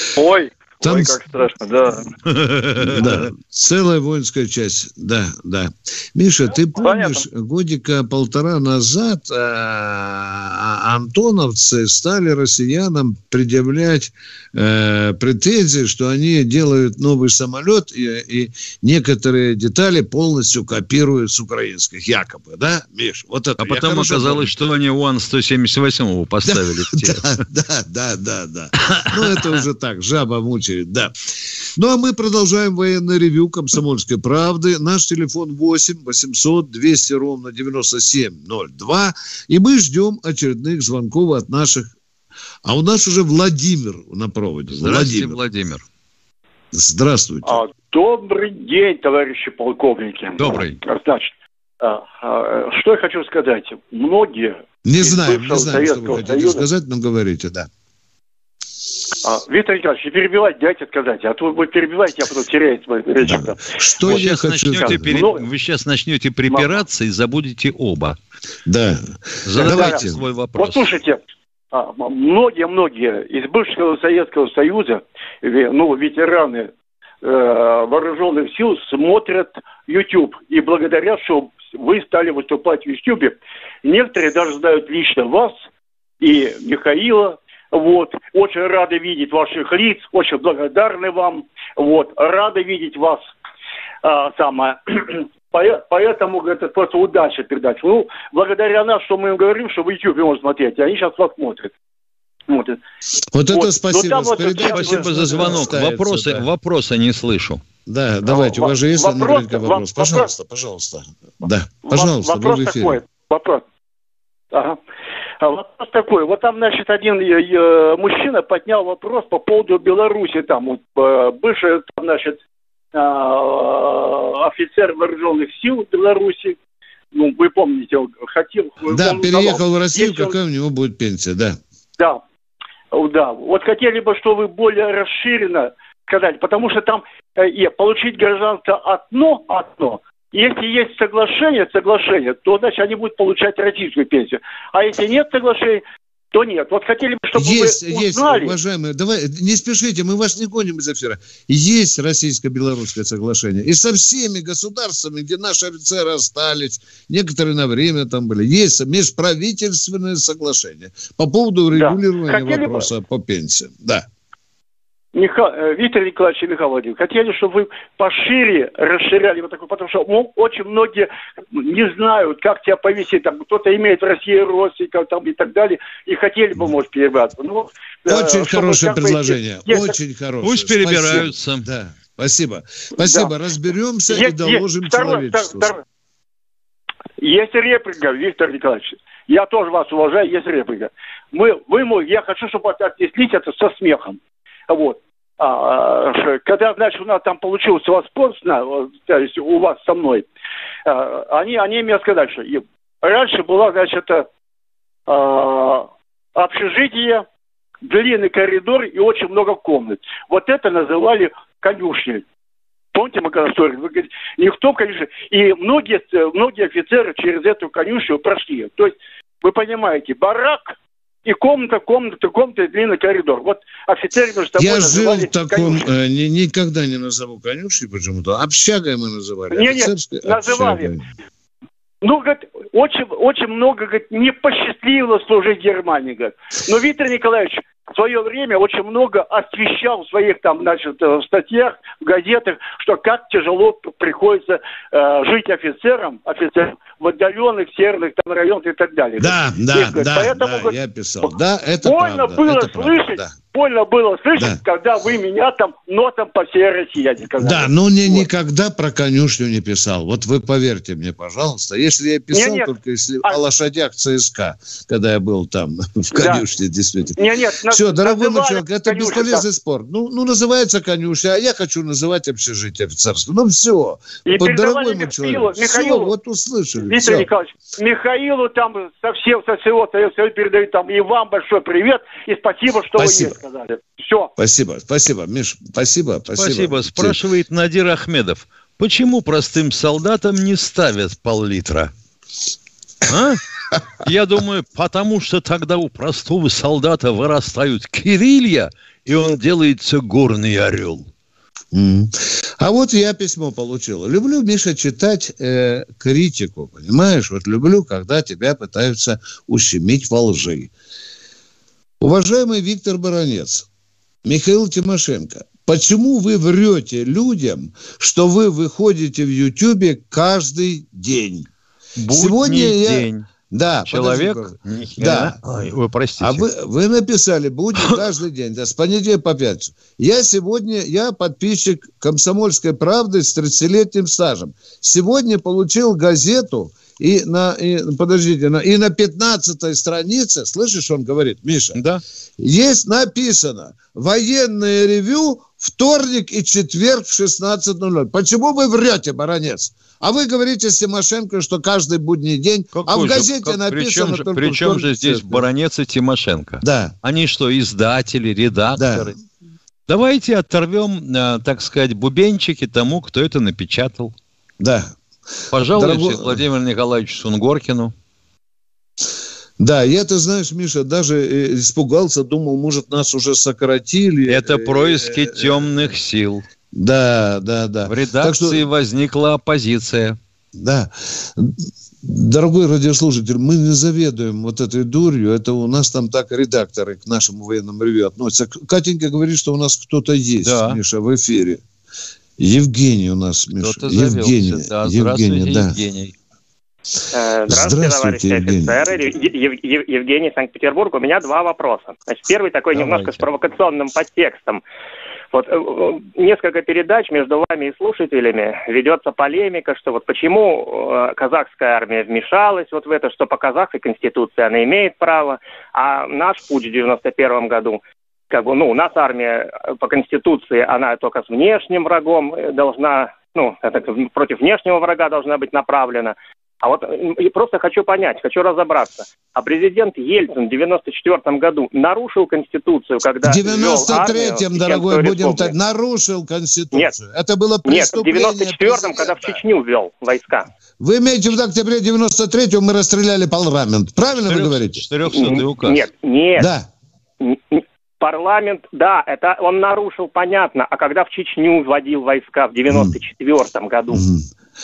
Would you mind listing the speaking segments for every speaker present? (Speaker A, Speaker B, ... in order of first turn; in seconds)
Speaker A: 0.2-2.1, 6.8-7.2
Speaker B: 0.8-1.2, 2.8-24.5, 26.5-31.1, 31.8-41.9, 42.6-45.4, 46.7-47.6, 54.9-57.7, 63.2-65.0, 68.7-70.2, 103.3-106.5, 107.9-113.0, 128.9-131.6, 147.3-164.1, 178.1-185.7, 224.6-231.1, 249.2-253.3, 257.4-267.2, 267.7-277.3, 283.0-283.4, 284.4-287.2, 301.7-310.7, 312.0-313.7, 314.2-321.5, 322.1-341.8, 342.4-355.4, 356.6-356.9, 358.8-359.1, 364.6-364.9, 365.7-366.4, 369.6-375.9, 376.7-378.6, 380.5-391.6, 392.4-395.8, 397.5-398.8, 433.2-439.4, 440.8-445.3, 446.4-446.7, 452.7-453.0, 453.9-454.3
Speaker C: 2.3-3.3, 23.6-27.3, 44.7-45.8, 50.4-50.8, 64.0-68.2, 69.5-70.9, 104.6-107.6, 180.4-181.7, 286.3-291.9, 293.1-293.4, 294.0-301.1, 322.0-323.3, 323.9-326.5, 341.8-342.0, 352.7-359.1, 359.9-364.1, 365.5-367.9, 374.3-376.4, 377.9-380.2, 390.4-390.8, 393.6-396.1, 402.7-403.3, 444.2-445.8
Speaker D: 47.5-56.6, 59.2-63.6, 64.8-65.5, 69.6-71.2, 71.7-76.7, 77.2-85.5, 86.2-93.3, 94.0-101.7, 102.5-102.8, 103.5-105.7, 108.2-110.3, 111.9-113.6, 114.5-114.8, 115.4-122.4, 122.9-126.6, 127.1-130.4, 132.9-148.6, 161.7-162.9, 165.1-180.0, 183.0-183.3, 184.1-185.8, 187.2-200.3, 200.9-204.3, 205.1-207.2, 207.8-212.2, 212.9-225.9, 229.5-230.9, 232.0-250.8, 251.8-258.3, 262.3-262.7, 266.1-266.4, 267.2-269.4, 274.2-276.1, 276.9-284.3
Speaker E: 397.1-404.6, 405.3-435.5, 437.7-440.5, 445.1-446.5, 447.2-454.0